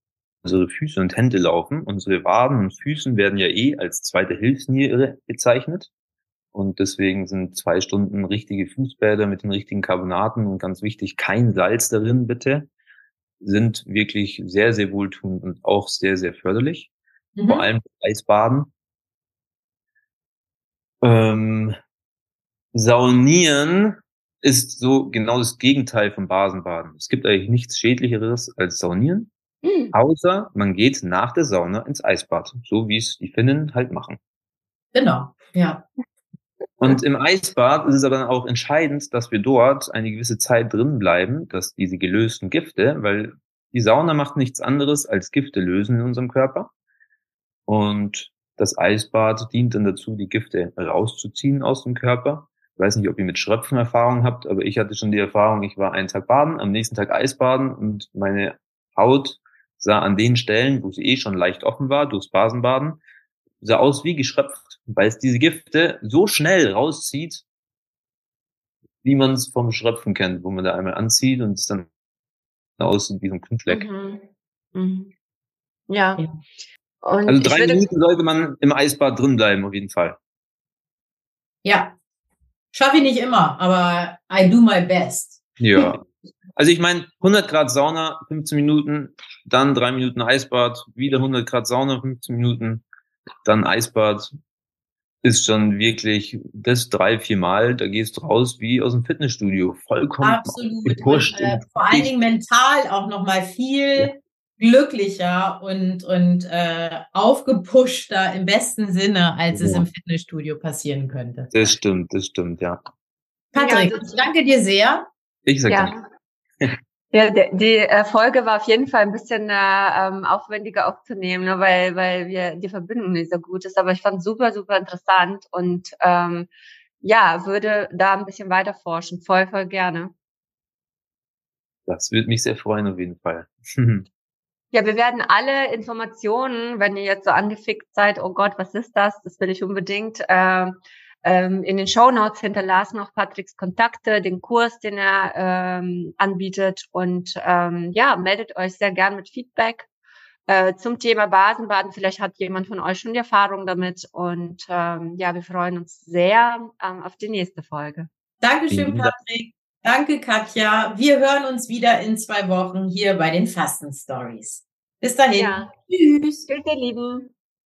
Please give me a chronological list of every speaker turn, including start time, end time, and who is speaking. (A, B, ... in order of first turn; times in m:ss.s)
0:00.4-0:05.9 A
0:06.5-0:12.7 A
0:13.4-0:16.9 A
0:17.4-0:17.7 B
0:17.5-0:18.7 A
0:21.0-0:21.8 A
0:22.7-0:29.3 A
0:29.6-0:29.9 C
0:29.9-0:34.2 A
0:34.9-0:35.8 B
0:36.8-0:46.7 A
0:47.7-1:03.0 A
1:03.6-1:07.4 A
1:09.0-1:11.9 A
1:12.8-1:13.9 A
1:13.7-1:15.1 C
1:15.9-1:16.2 C
1:17.0-1:17.9 C
1:17.3-1:20.2 A
1:21.6-1:21.9 B
1:22.7-1:25.4 B
1:25.6-1:26.0 A
1:26.6-1:32.8 A
1:33.4-1:34.3 A
1:35.2-1:42.1 A
1:40.2-1:51.5 B
1:49.5-1:49.8 A
1:51.5-1:52.8 A
1:53.5-1:55.1 B
1:53.5-1:54.2 C
1:55.4-1:55.9 A
1:55.7-1:56.0 C
1:57.1-2:06.5 C
2:07.0-2:10.1 C
2:11.9-2:14.0 A
2:14.7-2:29.9 C
2:30.5-2:38.1 C
2:38.4-2:46.5 B
2:38.7-2:39.1 A
2:45.4-2:45.7 C
2:46.5-2:47.3 C